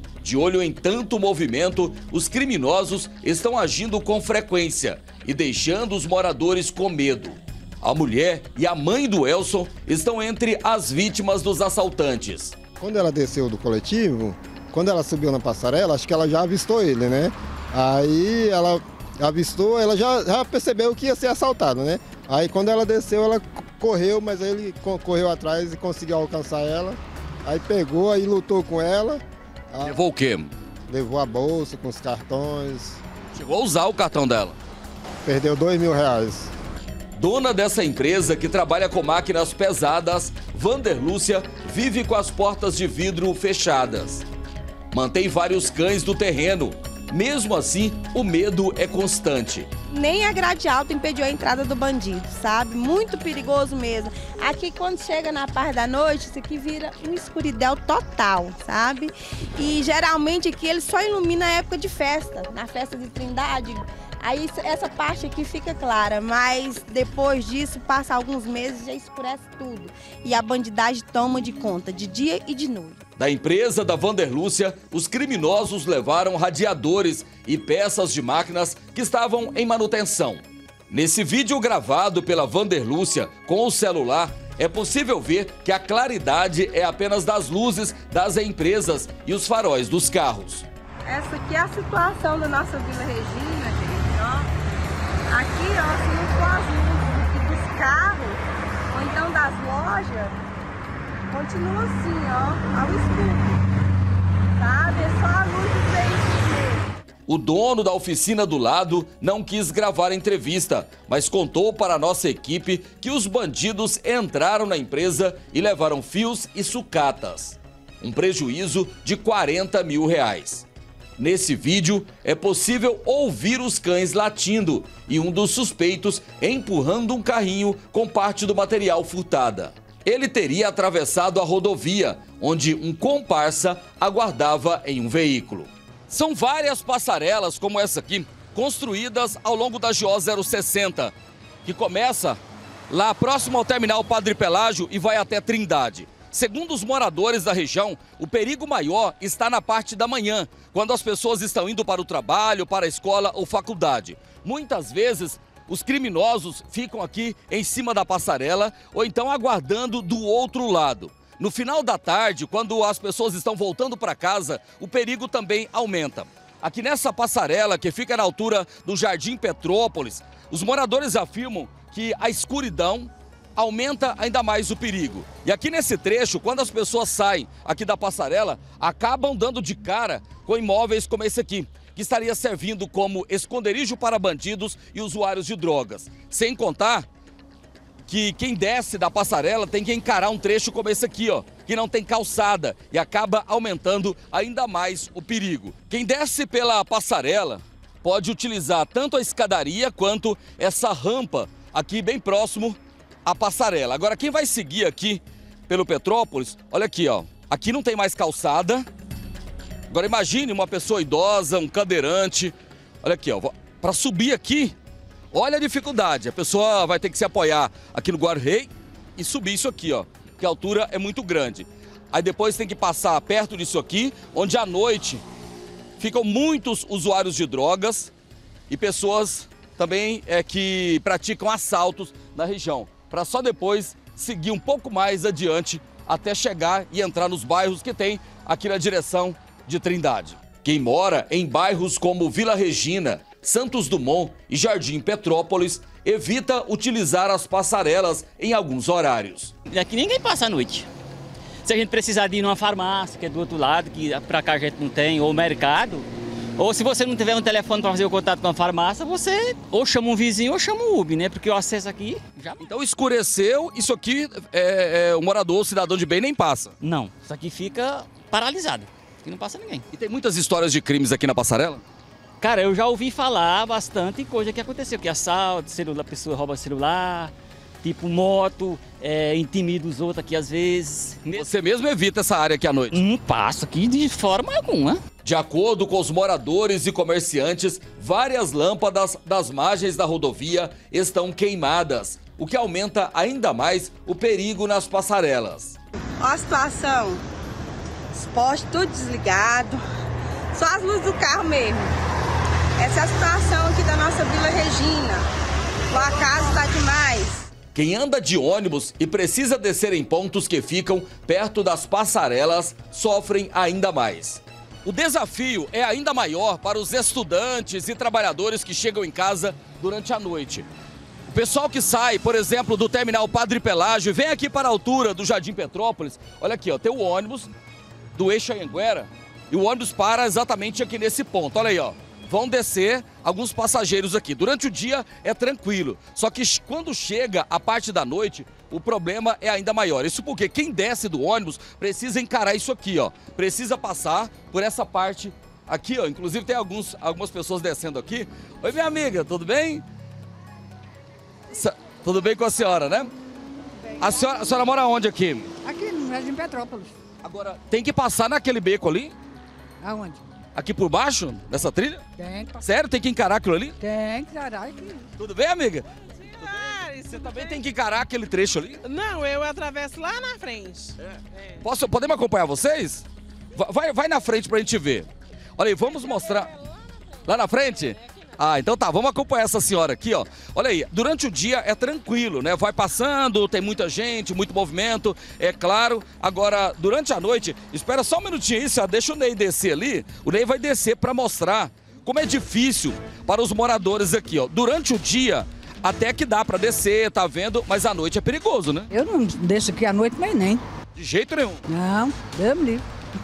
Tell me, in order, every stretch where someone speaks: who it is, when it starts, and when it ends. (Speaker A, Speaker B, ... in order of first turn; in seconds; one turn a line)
Speaker A: 0.2-12.6
Speaker B: 12.8-30.0
Speaker A: 29.8-30.5
Speaker B: 30.9-33.0
Speaker A: 33.3-34.6
Speaker B: 35.2-36.5
Speaker A: 37.2-44.3
Speaker A: 44.9-49.7
Speaker C: 49.9-73.0
Speaker A: 73.2-90.7
Speaker C: 91.0-94.5
Speaker C: 95.3-100.4
Speaker C: 101.3-103.6
Speaker C: 104.5-106.9
Speaker A: 107.3-120.7
Speaker A: 121.2-187.1
Speaker A: 188.1-208.9
Speaker A: 209.9-214.8
Speaker A: 215.3-225.2
Speaker A: 226.0-228.1
Speaker A: 228.7-249.5
Speaker D: 249.7-250.9
Speaker D: 251.6-262.6
Speaker A: 262.6-266.8
Speaker D: 266.8-269.9
Speaker A: 269.9-271.8
Speaker D: 272.4-281.5
Speaker A: 281.4-283.1
Speaker D: 282.9-285.0
Speaker A: 285.2-295.8
Speaker C: 296.2-297.2
Speaker C: 298.1-299.8
Speaker C: 300.5-301.9
Speaker C: 302.8-305.3
Speaker C: 305.9-307.5
Speaker A: 307.7-320.7
Speaker A: 321.3-327.5
Speaker A: 328.2-349.8
Speaker A: 351.5-353.1
Speaker A: 354.0-355.5
Speaker E: 354.0-354.3
Speaker E: 355.6-356.9
Speaker A: 357.2-359.1
Speaker E: 359.8-360.2
Speaker A: 360.6-362.0
Speaker E: 362.2-362.7
Speaker A: 362.6-363.8
Speaker E: 363.8-365.1
Speaker A: 365.2-365.9
Speaker A: 366.4-368.8
Speaker F: 366.4-367.6
Speaker F: 368.8-370.9
Speaker A: 371.6-376.5
Speaker A: 377.2-398.9
Speaker E: 398.9-400.6
Speaker A: 400.9-401.6
Speaker E: 401.7-402.8